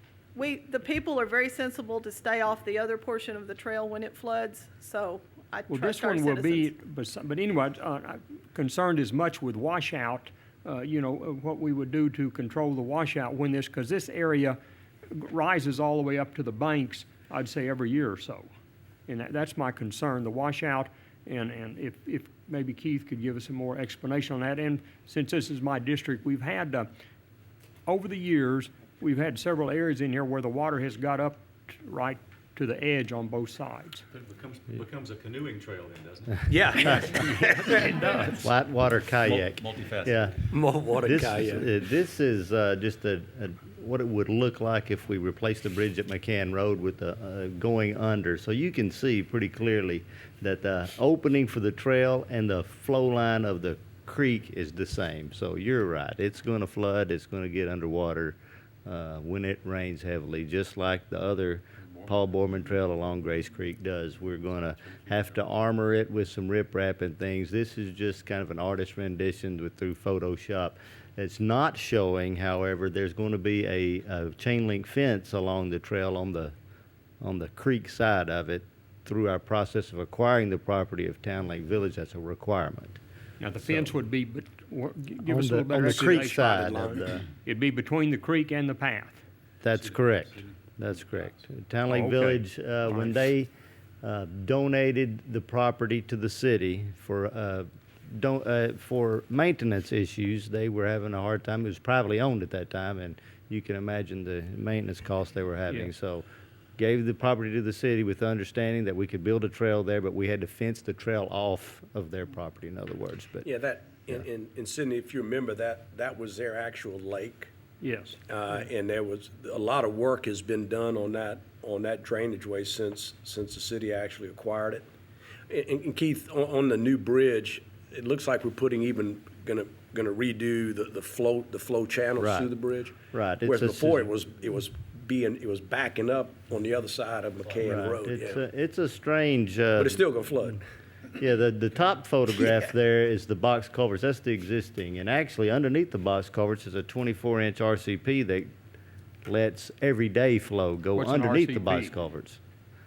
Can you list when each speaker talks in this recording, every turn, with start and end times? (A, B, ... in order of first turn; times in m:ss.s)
0:00.3-0:06.7 A
0:05.7-0:14.6 B
0:15.1-0:18.5 B
0:19.1-0:26.9 B
0:27.8-0:34.0 B
0:34.1-0:38.5 C
0:36.5-0:37.8 D
0:38.4-0:40.4 E
0:39.2-0:40.2 C
0:40.5-0:41.7 D
0:41.0-1:16.5 E
1:04.9-1:05.1 C
1:17.2-1:23.0 E
1:23.4-1:29.2 B
1:23.6-1:23.9 E
1:25.2-1:27.2 E
1:25.9-1:26.1 D
1:29.6-1:33.5 E
1:29.8-1:30.1 C
1:31.9-1:33.2 B
1:34.0-1:46.2 E
1:46.8-1:53.5 E
1:53.4-1:57.5 D
1:57.8-1:58.2 B
1:58.3-2:04.9 D
2:05.5-2:18.4 D
2:12.2-2:12.5 E
2:13.1-2:14.1 E
2:17.6-2:20.0 E
2:19.8-2:20.6 D
2:21.2-2:28.5 E
2:29.2-2:32.4 E
2:31.0-2:31.9 B